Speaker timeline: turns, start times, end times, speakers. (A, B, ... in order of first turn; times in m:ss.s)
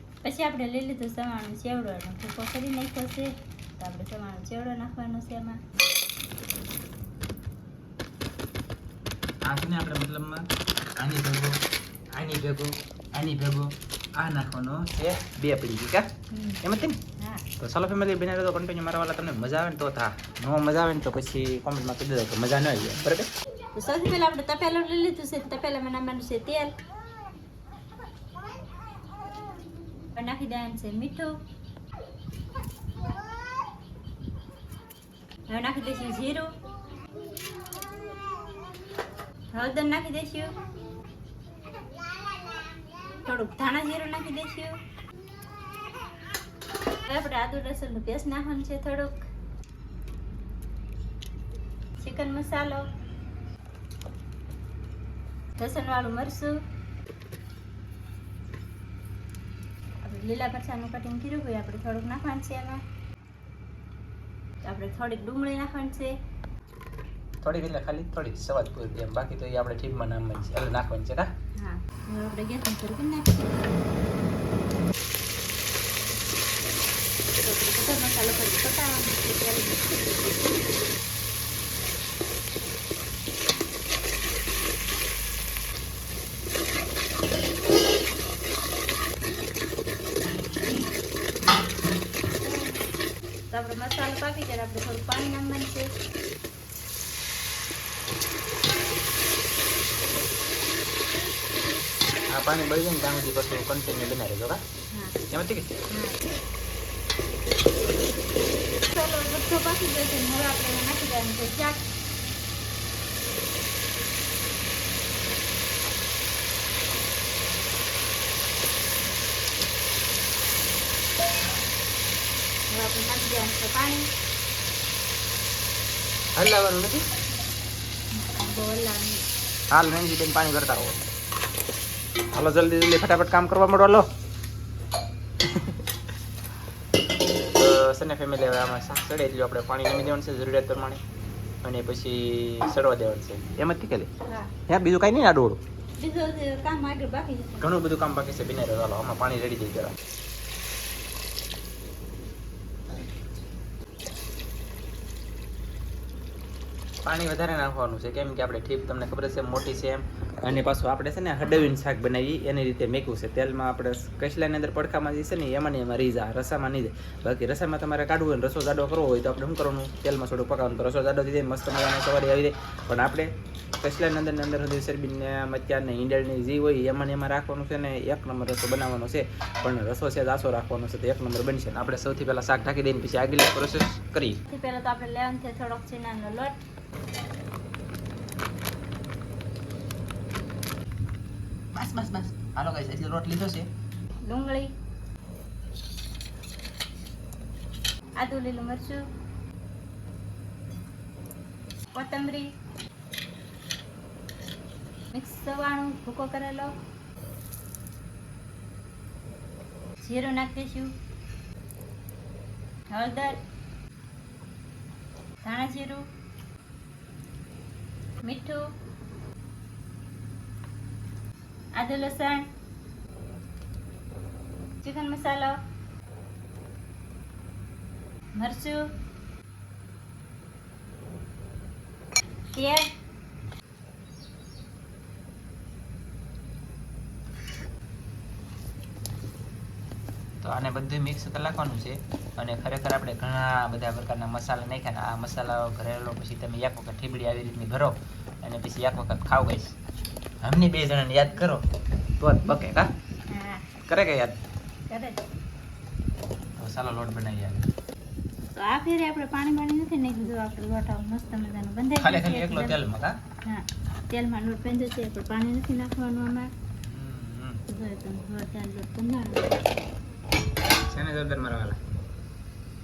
0:00.2-0:05.6 A
0:09.4-0:11.6 B
0:12.1-0:16.1 B
0:16.3-0:16.6 A
0:16.6-0:17.0 B
0:17.2-0:17.4 A
0:17.6-0:23.3 B
0:23.7-0:26.7 A
0:30.1-0:31.3 A
0:35.5-0:36.5 A
0:39.5-0:40.5 A
0:43.2-0:44.8 A
0:47.1-0:49.3 A
0:52.0-0:52.8 A
0:55.6-0:56.6 A
1:00.0-1:02.8 A
1:04.6-1:06.1 A
1:07.4-1:11.3 B
1:11.6-1:13.8 A
1:17.4-1:19.9 A
1:32.4-1:32.8 A
1:33.5-1:35.9 A
1:42.3-1:44.6 B
1:44.9-1:45.2 A
1:45.3-1:45.8 B
1:45.9-1:46.2 A
1:48.9-1:51.9 A
2:02.7-2:04.1 A
2:06.4-2:07.0 B
2:08.1-2:09.2 A
2:09.7-2:11.0 B
2:12.3-2:14.1 B
2:15.4-2:15.8 B
2:17.4-2:21.0 B
2:21.6-2:24.1 B
2:24.2-2:24.5 A
2:24.7-2:25.6 B
2:26.0-2:27.7 A
2:27.6-2:30.0 B
2:37.0-3:04.4 B
3:04.5-3:06.6 A
3:11.7-3:13.7 B
3:14.2-3:14.7 A
3:18.2-3:19.0 A
3:21.9-3:22.5 A
3:25.1-3:26.7 A
3:30.0-3:30.9 A
3:32.9-3:33.4 A
3:35.4-3:36.0 A
3:38.2-3:38.6 A
3:41.8-3:42.5 A
3:44.8-3:45.6 A
3:48.4-3:48.8 A
3:52.5-3:52.9 A
4:00.4-4:09.8 B
4:10.4-4:11.6 B
4:12.2-4:12.9 B
4:13.3-4:13.7 A
4:13.9-4:14.4 B
4:14.9-4:15.2 A
4:16.6-4:17.7 B
4:18.6-4:22.8 A
4:22.0-4:23.2 B
4:23.4-4:26.5 A
4:26.8-4:27.6 B
4:27.7-4:29.8 A
4:30.9-4:31.8 B